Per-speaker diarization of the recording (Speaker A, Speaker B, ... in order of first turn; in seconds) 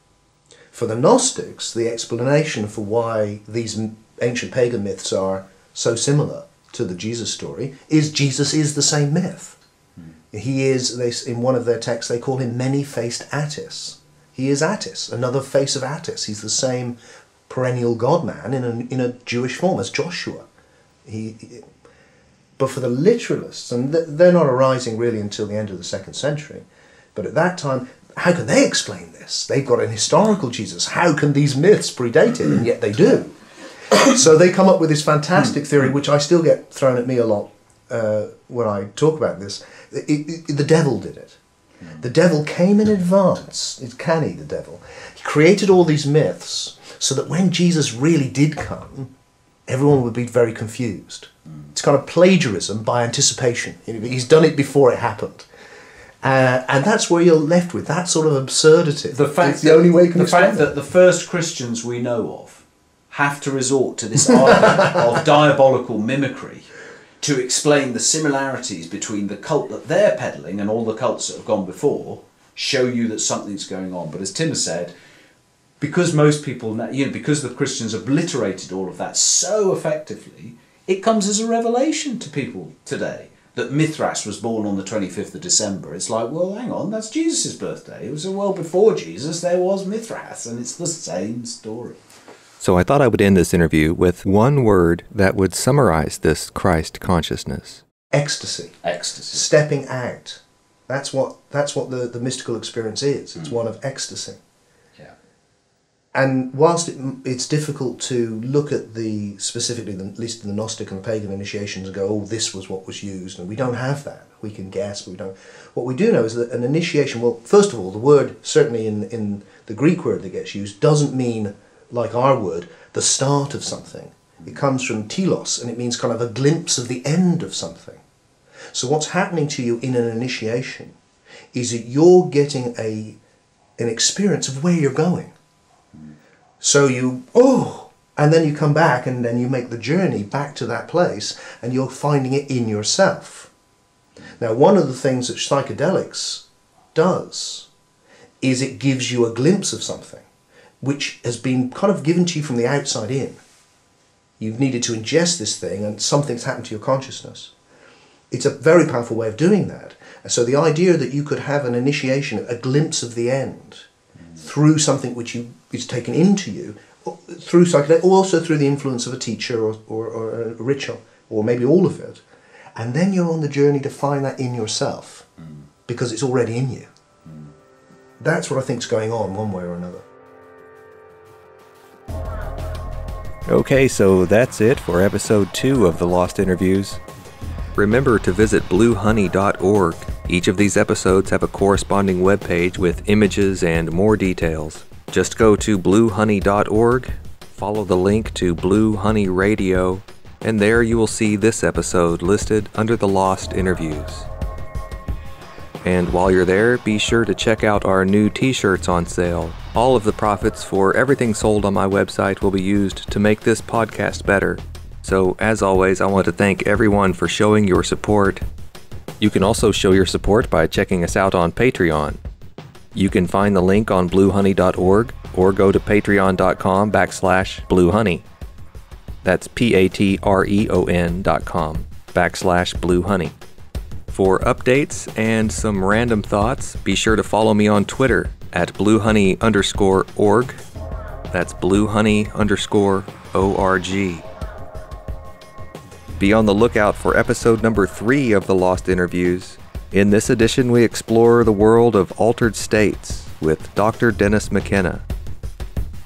Speaker A: 0.7-9.6, 10.3-17.0, 17.5-20.5, 21.1-21.7, 22.6-33.4, 33.9-41.4, 42.0-49.1, 49.7-55.5, 56.2-60.7, 98.1-98.8, 99.3-104.4, 106.1-128.0, 128.7-130.9, 131.5-133.2, 133.8-135.3, 136.6-143.5, 144.3-147.7, 148.4-150.3, 150.8-153.4, 154.4-157.5, 158.3-172.2, 172.8-175.3, 175.9-176.9, 178.2-180.1
Speaker B: 59.1-74.9, 75.8-92.0, 98.8-99.5, 175.4-175.7, 177.3-177.5
Speaker C: 92.6-97.8, 183.5-187.0, 187.8-204.3, 205.8-218.4, 219.2-222.2, 222.9-228.2, 229.2-233.3, 234.1-240.6, 241.3-244.3, 246.2-255.1